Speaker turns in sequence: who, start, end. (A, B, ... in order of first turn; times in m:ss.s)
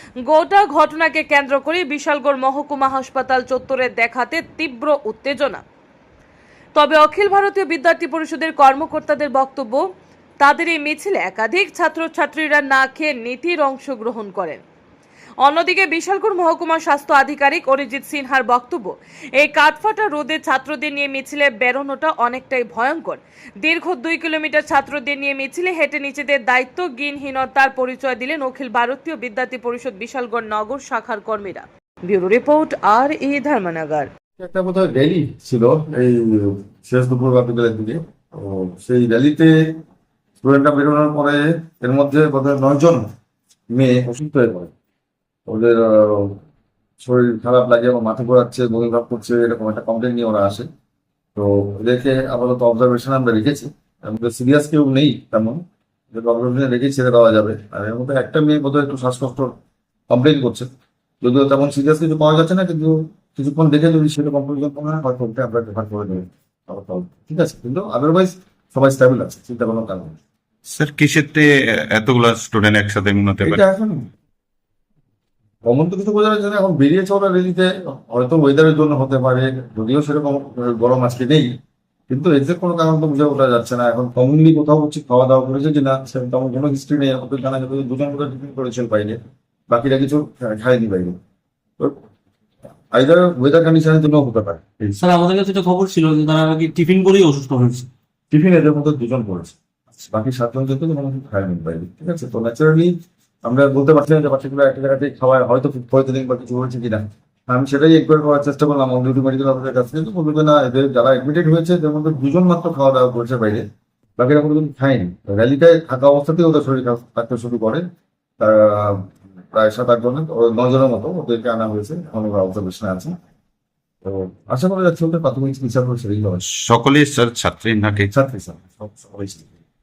0:00.2-0:05.6 A
0:06.8-0:09.8 A
0:10.4-0:14.6 A
0:15.4-0:34.1 A
0:34.4-0:39.5 B
0:40.4-0:43.0 B
0:43.7-0:44.7 B
0:45.5-0:46.4 B
0:47.0-0:50.7 B
0:51.3-0:55.6 B
0:56.1-0:59.5 B
1:00.1-1:00.7 B
1:01.2-1:10.2 B
1:10.7-1:13.6 C
1:13.4-1:14.0 B
1:15.6-1:21.5 B
1:22.1-1:29.2 B
1:29.7-1:31.2 B
1:32.9-1:35.0 B
1:35.0-1:37.9 D
1:38.3-1:42.9 B
1:43.4-1:53.6 B
1:54.2-1:57.8 B
1:58.4-2:03.1 B
2:04.0-2:06.4 B
2:06.4-2:08.1 C
2:08.1-2:09.5 B